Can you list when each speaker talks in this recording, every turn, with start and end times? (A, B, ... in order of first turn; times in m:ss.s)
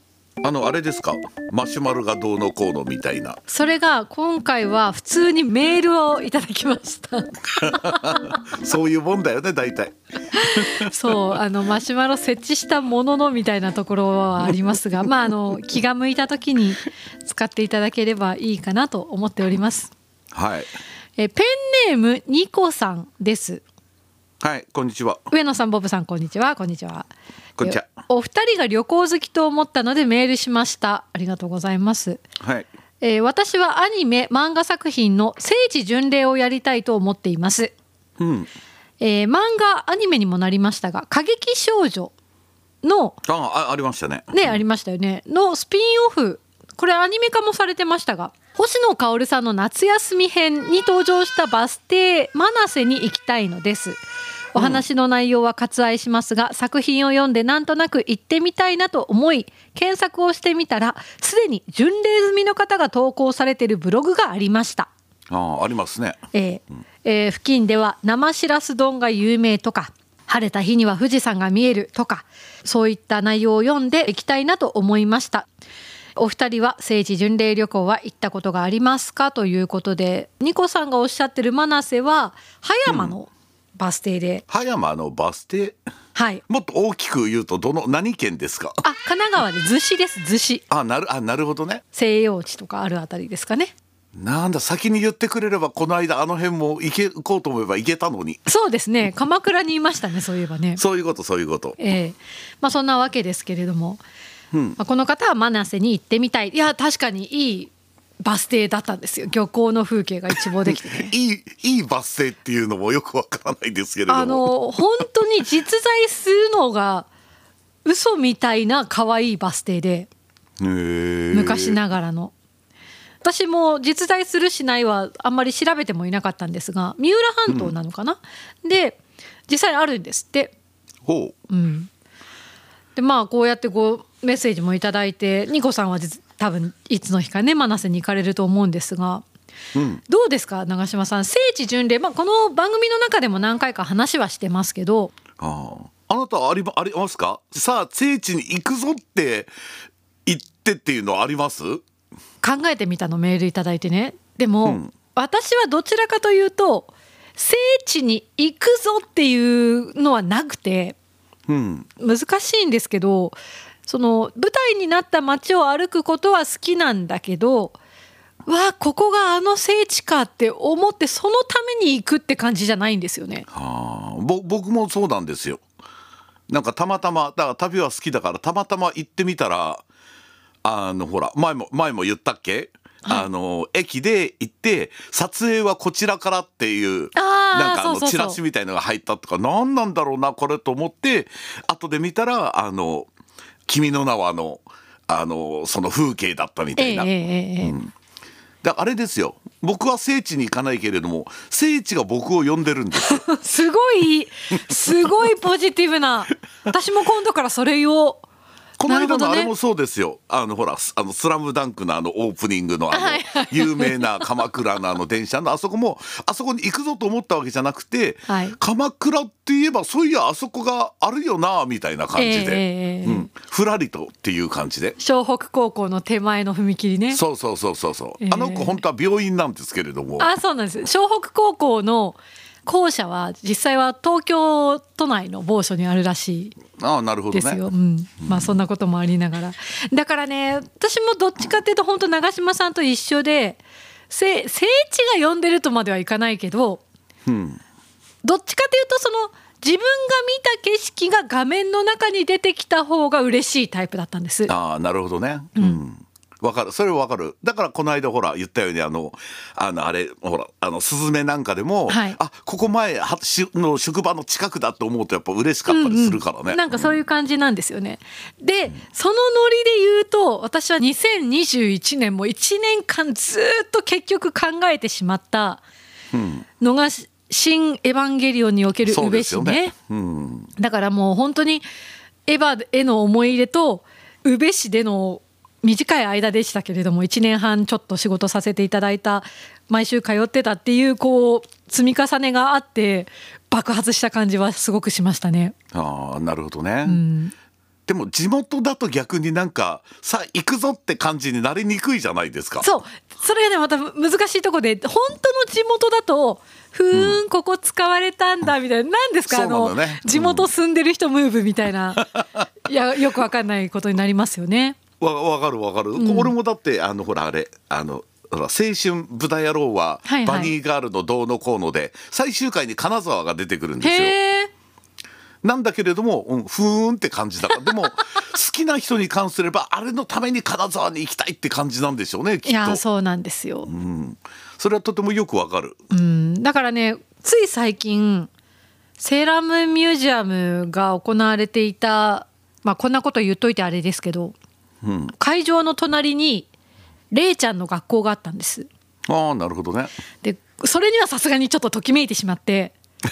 0:00.4-0:03.4 A
0:03.5-0:08.3 B
0:07.6-0:10.9 A
0:10.3-0:19.9 B
0:20.3-0:20.7 A
0:21.2-0:23.6 B
0:24.4-0:25.2 A
0:25.3-0:27.1 B
0:27.6-0:27.8 A
0:27.6-0:32.2 B
0:32.4-0:32.7 A
0:33.0-0:37.7 B
0:38.2-0:38.5 A
0:39.0-0:42.1 B
0:42.8-0:43.2 B
0:43.3-0:44.6 A
0:44.3-0:54.0 B
0:54.5-1:04.9 B
0:54.6-0:54.8 A
1:05.3-1:06.2 A
1:06.3-1:15.4 B
1:16.2-1:24.4 B
1:22.9-1:23.1 A
1:24.5-1:25.8 A
1:26.1-1:26.4 B
1:26.5-1:28.8 A
1:28.8-1:30.6 B
1:30.7-1:31.8 A
1:31.9-1:33.7 B
1:34.2-1:38.4 A
1:38.4-1:40.8 B
1:40.8-1:41.8 A
1:41.8-1:44.0 B
1:44.5-1:44.8 A
1:44.8-1:47.7 B
1:48.2-1:51.1 B
1:50.6-1:54.4 A
1:54.1-1:57.1 B
1:57.8-2:00.1 B
2:00.6-2:01.8 A
2:01.3-2:02.3 B
2:03.2-2:10.5 B
2:07.5-2:07.7 A
2:11.0-2:11.3 A
2:11.5-2:11.9 B
2:13.0-2:19.2 B
2:19.7-2:20.0 A
2:20.1-2:25.1 B
2:25.4-2:29.5 A
2:30.2-2:31.8 A
2:32.4-2:41.0 B
2:34.6-2:34.9 A
2:41.5-2:41.9 A
2:42.0-2:47.8 B
2:48.5-2:53.4 B
2:53.5-2:55.6 A
2:56.5-2:59.8 A
3:00.6-3:13.1 A
3:07.2-3:08.4 B
3:13.7-3:17.1 A
3:16.8-3:17.8 B
3:17.6-3:17.9 A
3:18.6-3:23.2 A
3:22.9-3:28.2 B
3:28.8-3:45.0 A
3:28.9-3:29.5 B
3:32.9-3:34.2 B
3:38.3-3:38.6 B
3:42.2-3:43.3 B
3:45.0-3:47.2 B
3:47.1-3:50.3 A
3:48.2-3:48.8 B
3:50.2-3:56.6 B
3:56.8-3:57.6 A
3:57.3-4:06.8 B
3:58.2-3:58.5 A
4:07.2-4:07.6 A
4:08.2-4:14.5 B
4:14.5-4:26.9 A
4:21.9-4:22.2 B
4:25.7-4:35.6 B
4:36.1-4:36.4 A
4:36.6-4:39.7 B
4:38.8-4:40.5 A
4:40.6-4:41.6 B
4:42.3-4:55.5 B
4:55.7-4:57.0 A
4:56.8-4:57.3 B
4:57.9-5:02.7 A
5:02.6-5:12.1 B
5:06.9-5:07.2 A
5:09.3-5:10.5 A
5:12.0-5:12.4 A
5:12.6-5:14.8 B
5:15.0-5:24.1 A
5:16.0-5:16.3 B
5:20.0-5:20.5 B
5:23.8-5:24.5 B
5:25.4-5:32.8 A
5:32.4-5:33.7 B
5:33.6-5:35.8 A
5:35.9-5:38.3 B
5:39.0-5:44.3 B
5:44.8-5:45.1 A
5:45.2-5:46.5 B
5:47.1-5:48.7 B
5:49.0-5:49.9 A
5:50.2-5:52.7 B